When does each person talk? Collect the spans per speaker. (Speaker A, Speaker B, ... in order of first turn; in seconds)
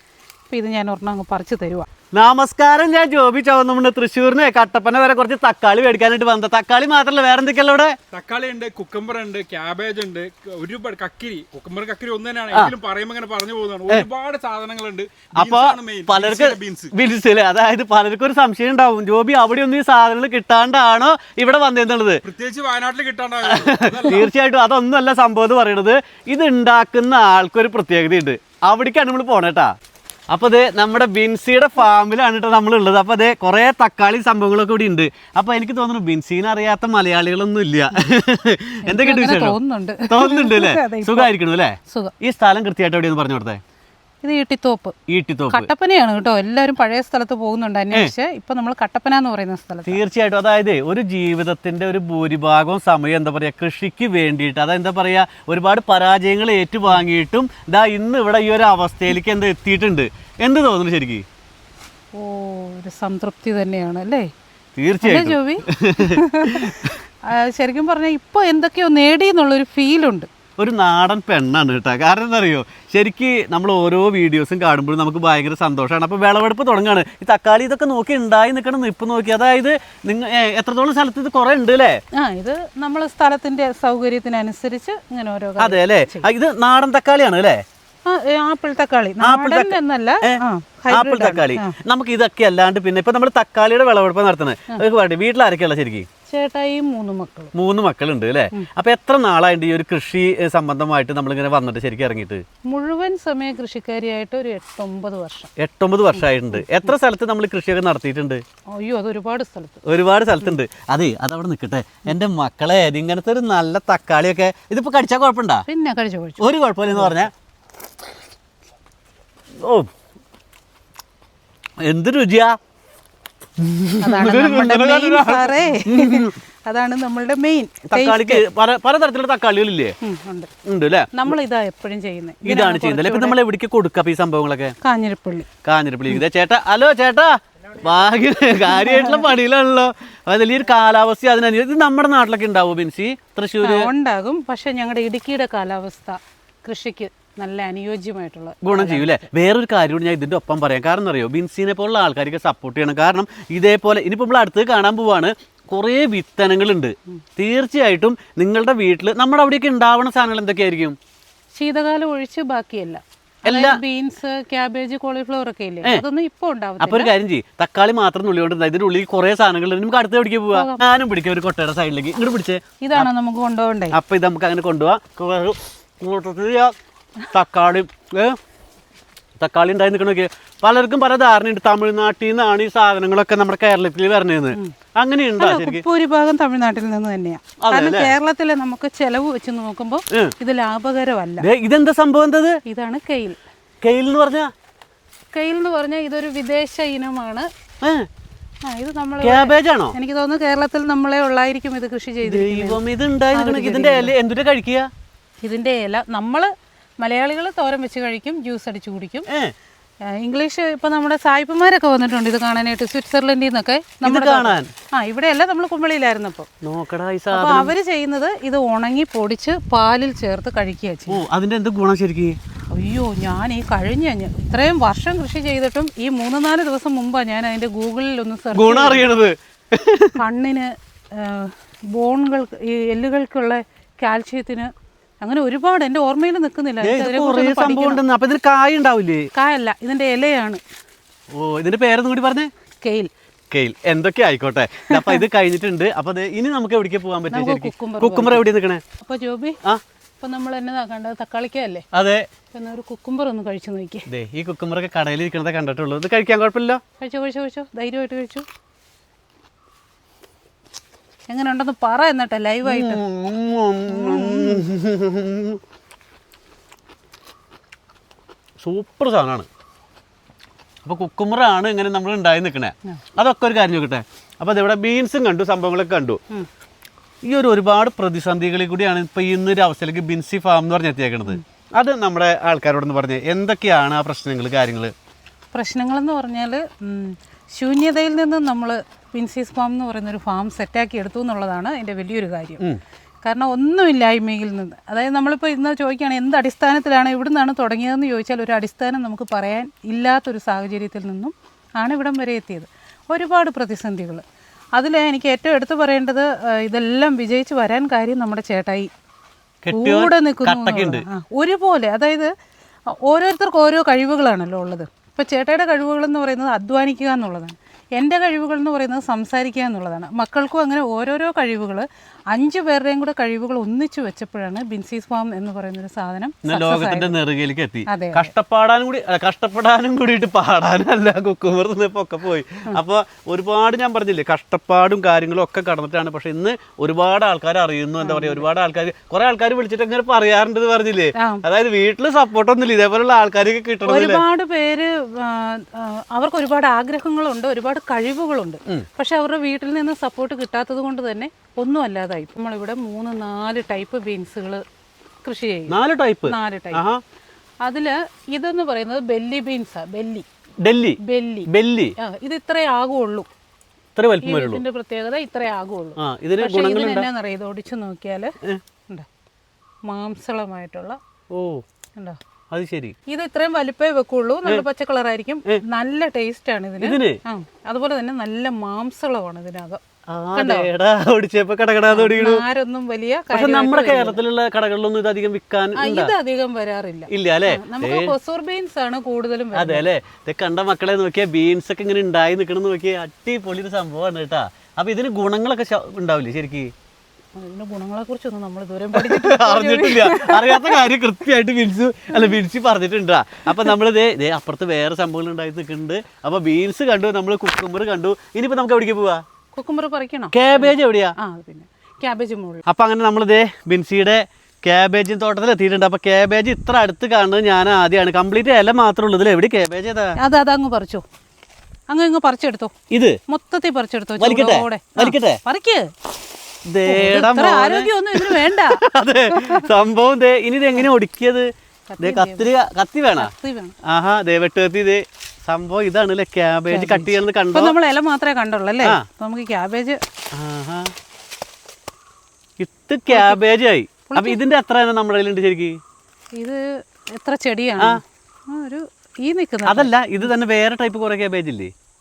Speaker A: 0.5-1.9, 38.9-41.3, 44.2-44.9, 45.5-50.0, 62.1-64.3, 65.0-70.3, 82.1-86.3, 88.1-91.8, 96.3-97.5, 102.7-105.5, 106.1-106.7, 108.7-109.8, 115.7-117.2, 124.0-128.4, 130.0-130.5, 131.1-133.4, 134.8-135.5, 138.7-139.3, 143.6-149.2, 161.5-167.1, 170.5-170.8, 172.8-173.9, 185.4-191.5, 192.6-193.4, 195.3-197.5, 198.7-202.8, 203.3-204.1, 205.4-206.5, 207.0-209.3, 210.1-216.5, 217.3-221.2, 222.7-229.0, 230.2-238.0, 239.3-240.6, 242.8-243.1, 244.9-245.2, 247.3-248.4, 249.0-249.6, 250.2-251.8, 252.5-254.1, 257.0-258.4, 261.3-263.0, 263.9-264.6, 285.5-292.6, 293.2-304.2, 304.8-308.9, 309.7-312.3, 312.9-327.1, 327.9-328.3, 338.0-338.4, 341.2-341.4, 343.9-354.6, 355.2-355.7, 356.3-356.8, 357.6-360.2, 361.0-363.3, 364.2-368.3, 369.8-371.0, 373.1-379.8, 380.3-380.7, 381.9-384.2, 385.8-389.9, 397.4-400.8, 409.5-412.6, 420.2-421.0, 421.9-422.7, 423.3-425.9, 426.9-428.8, 429.3-429.6, 431.9-432.5, 433.1-433.8, 436.7-440.0, 443.1-443.4, 444.1-444.4, 446.4-446.6, 447.1-449.9
Speaker B: 2.1-7.9, 15.3-22.2, 23.4-29.7, 30.3-39.6, 40.1-43.6, 45.1-45.7, 49.8-61.2, 64.8-67.0, 70.6-82.0, 85.6-87.6, 89.2-96.1, 97.5-102.4, 105.6-108.4, 109.8-115.7, 116.4-117.3, 119.6-119.9, 121.8-122.6, 123.6-126.3, 127.9-129.9, 130.6-131.3, 132.4-134.7, 135.6-143.9, 148.6-160.9, 163.4-163.8, 166.8-173.1, 173.9-176.7, 177.3-178.4, 179.4-185.8, 187.6-188.1, 191.4-192.6, 193.8-194.5, 197.8-198.1, 199.2-199.9, 202.2-204.9, 214.0-214.7, 216.6-217.7, 221.1-222.4, 228.5-230.2, 236.8-239.3, 241.3-242.5, 243.5-248.8, 251.9-252.3, 254.1-256.8, 262.6-265.6, 268.6-269.5, 270.8-276.2, 277.3-284.9, 309.6-311.0, 326.4-344.2, 355.7-357.0, 360.6-361.9, 363.9-364.6, 366.0-367.1, 371.3-371.6, 372.5-372.9, 376.8-377.2, 380.1-382.4, 383.3-386.1, 387.1-388.1, 389.5-396.7, 398.9-409.2, 410.3-411.1, 412.6-420.1, 422.9-423.2, 424.2-425.4, 426.7-431.5, 432.0-433.3, 433.8-437.8, 440.3-440.9, 442.6-445.8, 449.6-451.7
Speaker C: 8.1-16.9, 22.2-24.3